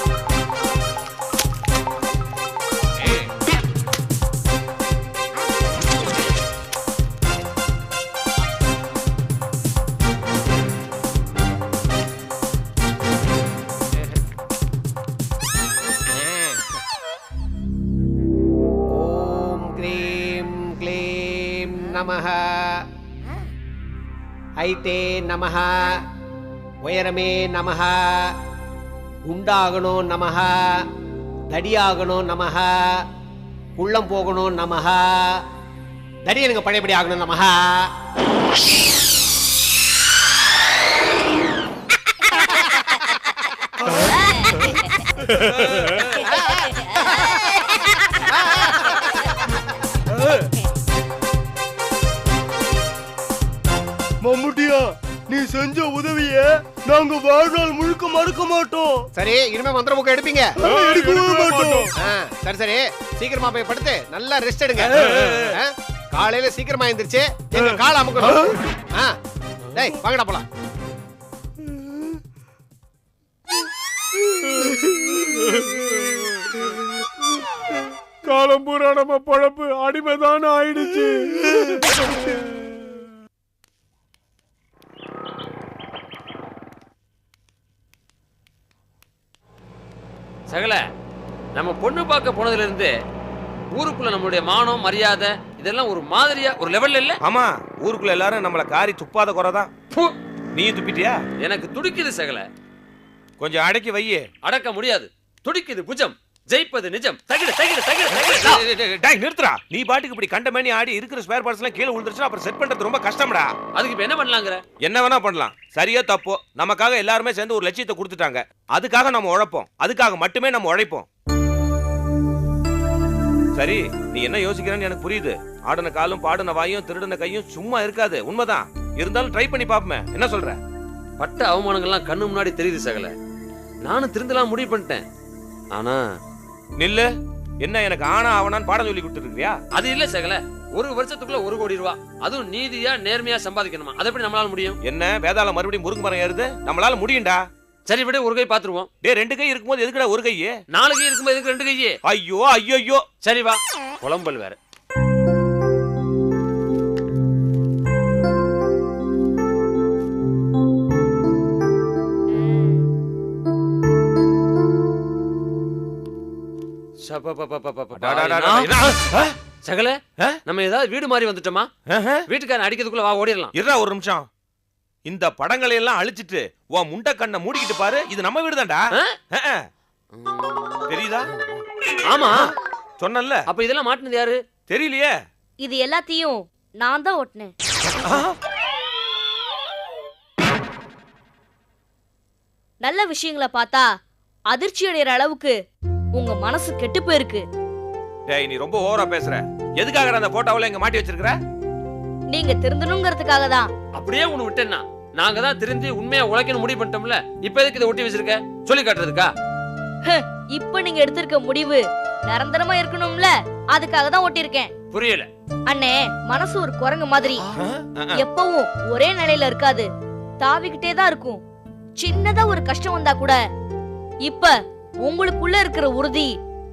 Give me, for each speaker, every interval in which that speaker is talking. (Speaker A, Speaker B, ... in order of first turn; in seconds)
Speaker A: 18.9-22.8, 24.6-26.0, 26.8-28.3, 29.3-30.5, 31.5-32.7, 33.8-35.4, 36.2-37.8, 59.1-60.5, 62.0-64.9, 65.5-68.3, 69.7-70.5
Speaker B: 54.2-59.0, 60.6-61.9, 64.8-65.5
Speaker C: 60.6-61.9, 78.2-81.5
Speaker D: 90.5-90.8, 91.5-92.9, 93.7-97.2, 101.4-102.5, 104.4-108.5, 113.7-114.6, 131.2-133.1, 133.8-135.0, 135.7-136.0, 139.7-144.8, 147.8-148.9, 150.7-151.9, 153.2-154.6, 167.0-168.7, 169.6-171.7, 172.3-173.5, 183.5-184.4, 203.9-209.3, 214.9-215.3
Speaker E: 97.2-99.7, 100.5-101.2, 103.4-104.3, 108.1-113.5, 114.8-121.1, 123.5-130.6, 136.8-137.1, 137.6-139.6, 144.8-147.4, 149.0-150.5, 152.1-153.0, 168.0-169.3, 171.9-172.2, 173.6-174.2, 175.1-179.6, 180.9-181.3, 183.0-183.4, 184.7-185.1, 188.0-188.3, 198.3-201.4, 217.9-218.2
Speaker F: 185.6-187.5, 192.8-193.8, 194.5-195.5, 196.2-197.4, 202.3-203.7, 210.1-214.7, 215.7-217.4, 218.2-219.9, 220.4-221.4, 222.0-223.4, 224.2-224.5, 225.0-226.3